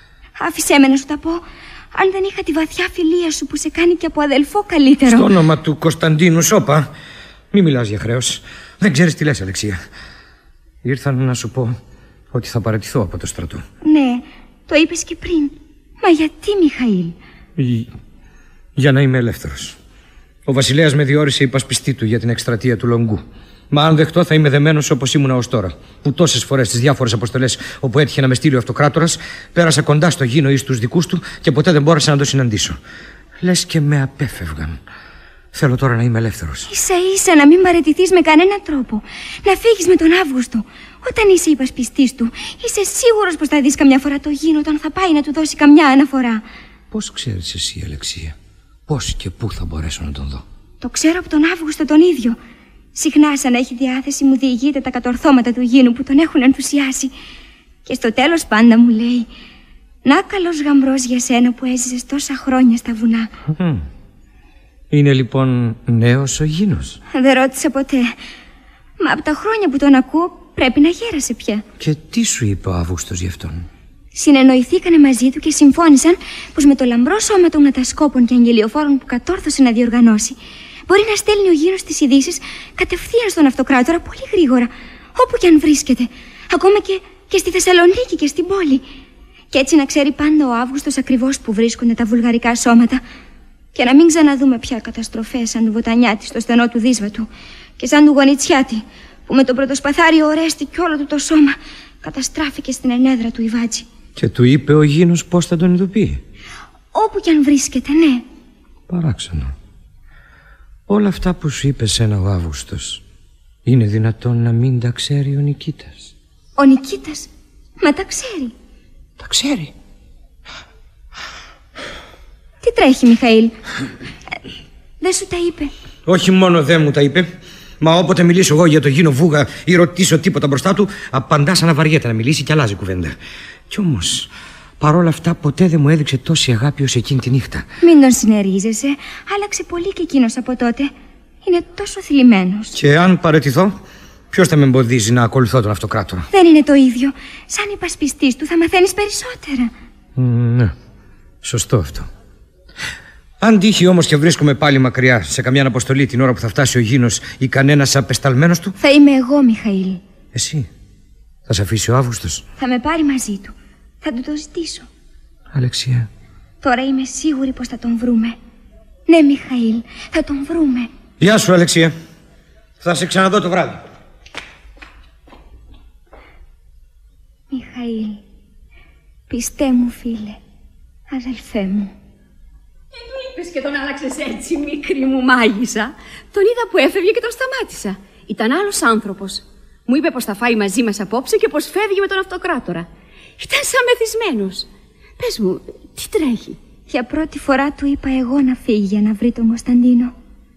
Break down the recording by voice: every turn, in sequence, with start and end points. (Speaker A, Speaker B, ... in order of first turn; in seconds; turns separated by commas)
Speaker A: 0.4-5.3, Speaker B: 5.1-6.9, Speaker B: 7.5-9.8, Speaker B: 10.8-11.8, Speaker B: 12.3-13.6, Speaker A: 13.8-17.1, Speaker B: 17.6-17.9, Speaker B: 18.8-19.8, Speaker B: 20.5-32.8, Speaker B: 33.4-34.8, Speaker B: 35.5-36.7, Speaker A: 36.7-46.4, Speaker B: 46.9-48.4, Speaker B: 48.9-50.4, Speaker A: 50.8-52.4, Speaker A: 52.9-57.1, Speaker A: 57.9-59.3, Speaker A: 60.0-63.3, Speaker B: 63.5-63.8, Speaker B: 64.9-67.0, Speaker A: 67.1-68.1, Speaker A: 69.0-71.6, Speaker B: 71.8-73.7, Speaker A: 74.1-80.4, Speaker A: 80.9-88.8, Speaker A: 89.5-93.0, Speaker A: 93.7-103.9, Speaker B: 104.2-106.2, Speaker A: 106.9-108.2, Speaker B: 108.9-109.5, Speaker B: 110.9-113.0, Speaker B: 113.7-116.1, Speaker A: 116.6-117.3, Speaker A: 117.8-118.5, Speaker B: 119.2-119.7, Speaker A: 122.6-123.5, Speaker A: 125.0-125.7, Speaker B: 126.1-127.3, Speaker B: 127.8-133.2, Speaker B: 133.7-137.7, Speaker A: 137.8-140.9, Speaker A: 141.4-142.8, Speaker B: 142.7-143.8, Speaker B: 144.3-146.3, Speaker A: 146.3-149.7, Speaker B: 150.2-150.7, Speaker B: 151.4-152.1, Speaker B: 153.4-158.7, Speaker A: 158.8-160.0, Speaker B: 160.3-160.7, Speaker B: 161.5-162.4, Speaker A: 162.6-164.9, Speaker B: 165.5-166.1, Speaker A: 166.6-168.4, Speaker A: 169.1-170.9, Speaker B: 171.2-171.9, Speaker B: 172.8-173.8, Speaker A: 177.5-178.2, Speaker A: 179.3-180.4, Speaker A: 181.1-181.9, Speaker C: 182.9-192.9, Speaker C: 193.4-196.6, Speaker A: 196.9-200.1